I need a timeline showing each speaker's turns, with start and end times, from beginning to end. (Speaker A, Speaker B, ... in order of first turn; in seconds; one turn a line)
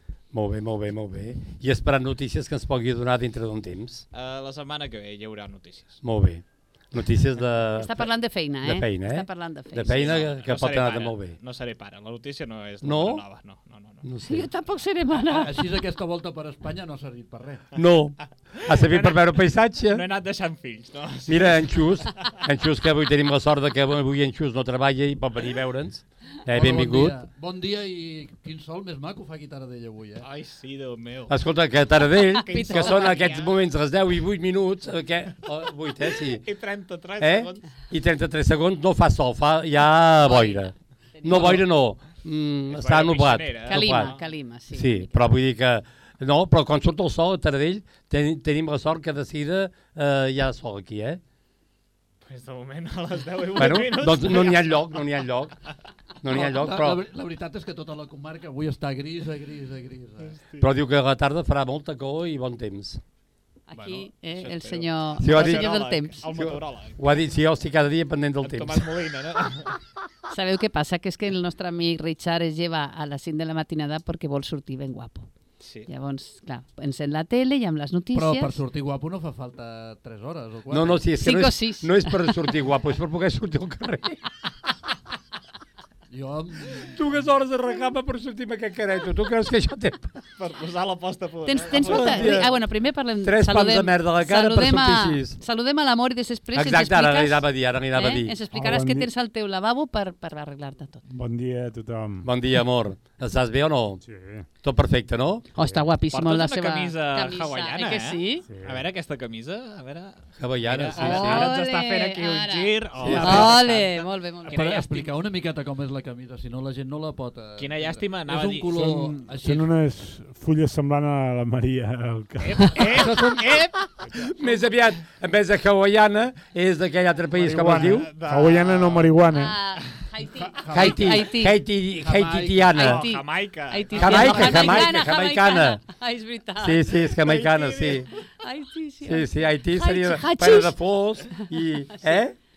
Speaker A: 0.3-4.0
Speaker B: 4.1-6.0
Speaker A: 6.0-11.3
Speaker C: 7.8-10.1
Speaker B: 9.9-14.0
Speaker A: 12.8-13.2
Speaker A: 14.0-14.5
Speaker C: 14.2-15.5
Speaker D: 15.2-17.7
Speaker A: 17.7-20.0
Speaker B: 18.6-21.8
Speaker A: 21.3-27.2
Speaker D: 26.5-30.2
Speaker B: 30.2-31.3
Speaker A: 31.3-36.4
Speaker B: 32.4-33.5
Speaker C: 32.5-33.2
Speaker B: 36.4-37.7
Speaker A: 37.2-44.1
Speaker C: 40.2-41.6
Speaker B: 41.3-41.6
Speaker B: 42.7-44.2
Speaker C: 43.7-45.2
Speaker A: 44.7-51.2
Speaker B: 52.2-54.9
Speaker A: 53.5-55.6
Speaker A: 56.2-57.0
Speaker D: 56.3-60.4
Speaker B: 60.3-60.6
Speaker A: 60.6-63.0
Speaker C: 63.7-66.2
Speaker B: 63.7-67.0
Speaker A: 65.2-68.9
Speaker B: 68.4-69.8
Speaker C: 70.3-75.3
Speaker B: 75.6-75.9
Speaker C: 75.9-78.6
Speaker D: 78.1-81.0
Speaker A: 80.7-84.2
Speaker C: 81.2-82.5
Speaker D: 86.1-86.9
Speaker A: 86.9-90.2
Speaker B: 90.4-92.5
Speaker C: 91.5-101.0
Speaker A: 91.7-92.5
Speaker A: 93.2-95.4
Speaker A: 96.5-98.4
Speaker E: 98.5-99.1
Speaker E: 101.1-102.3
Speaker A: 102.2-104.0
Speaker E: 104.0-104.5
Speaker A: 104.6-105.5
Speaker C: 105.5-108.4
Speaker B: 106.1-115.1
Speaker E: 108.5-108.8
Speaker A: 110.4-111.5
Speaker C: 110.9-114.6
Speaker A: 113.0-113.5
Speaker D: 113.0-113.6
Speaker D: 114.5-119.7
Speaker B: 117.6-118.7
Speaker E: 118.7-123.0
Speaker B: 122.4-123.9
Speaker D: 122.9-123.4
Speaker A: 124.1-128.1
Speaker E: 127.4-129.6
Speaker B: 127.8-129.1
Speaker C: 129.3-131.6
Speaker D: 130.6-131.2
Speaker A: 130.7-133.1
Speaker D: 132.0-132.8
Speaker C: 132.7-137.0
Speaker B: 132.8-134.7
Speaker D: 133.9-134.9
Speaker A: 134.0-135.8
Speaker A: 136.6-138.1
Speaker B: 137.2-138.1
Speaker C: 138.4-140.8
Speaker A: 139.0-142.3
Speaker C: 141.9-142.2